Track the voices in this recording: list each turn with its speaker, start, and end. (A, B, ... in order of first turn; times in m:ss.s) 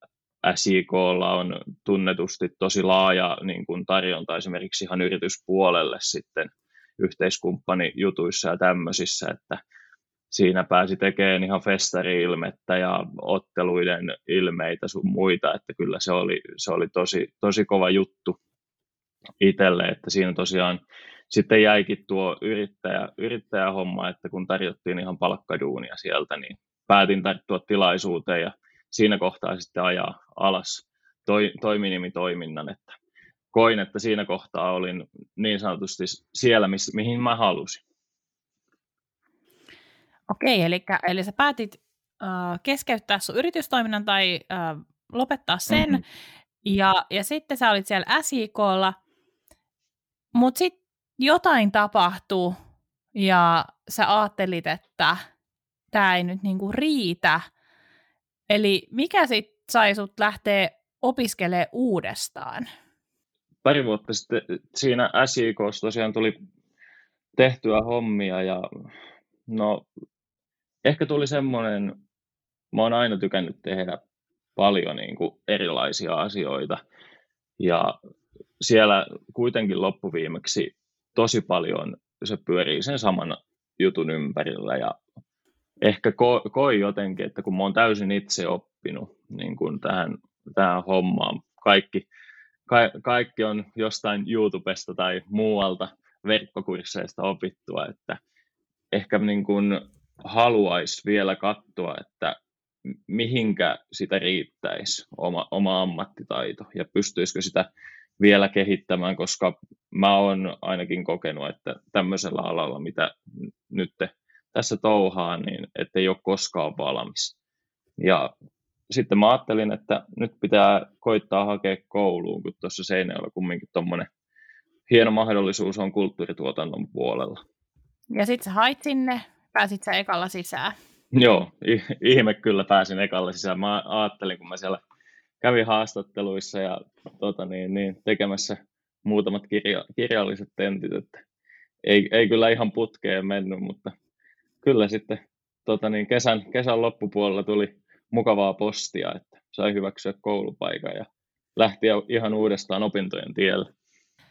0:00.4-0:09.6 A
0:10.3-0:18.4 A
0:19.4-0:33.0 A
0:33.5-0:37.8 A
0:40.3-0:46.0 B
0:45.7-0:46.0 A
0:46.6-0:49.0 B
0:50.3-0:52.5 B
0:53.1-0:55.2 B
0:55.9-0:57.4 B
0:58.5-1:02.6 B
1:03.6-1:06.4 A
1:07.4-1:08.6 A
1:09.5-1:09.8 A
1:10.8-1:12.0 A
1:12.7-1:14.0 A
1:14.6-1:16.8 A
1:17.6-1:17.9 A
1:18.6-1:25.0 A
1:25.8-1:32.0 A
1:32.7-1:38.2 A
1:38.9-1:42.4 A
1:42.9-1:47.7 A
1:48.2-1:53.1 A
1:53.7-1:57.3 A
1:58.0-1:58.3 A
1:58.9-2:04.1 A
2:04.9-2:07.4 A
2:08.1-2:10.7 B
2:11.1-2:14.8 A
2:15.4-2:21.2 A
2:21.8-2:23.9 A
2:24.6-2:33.7 A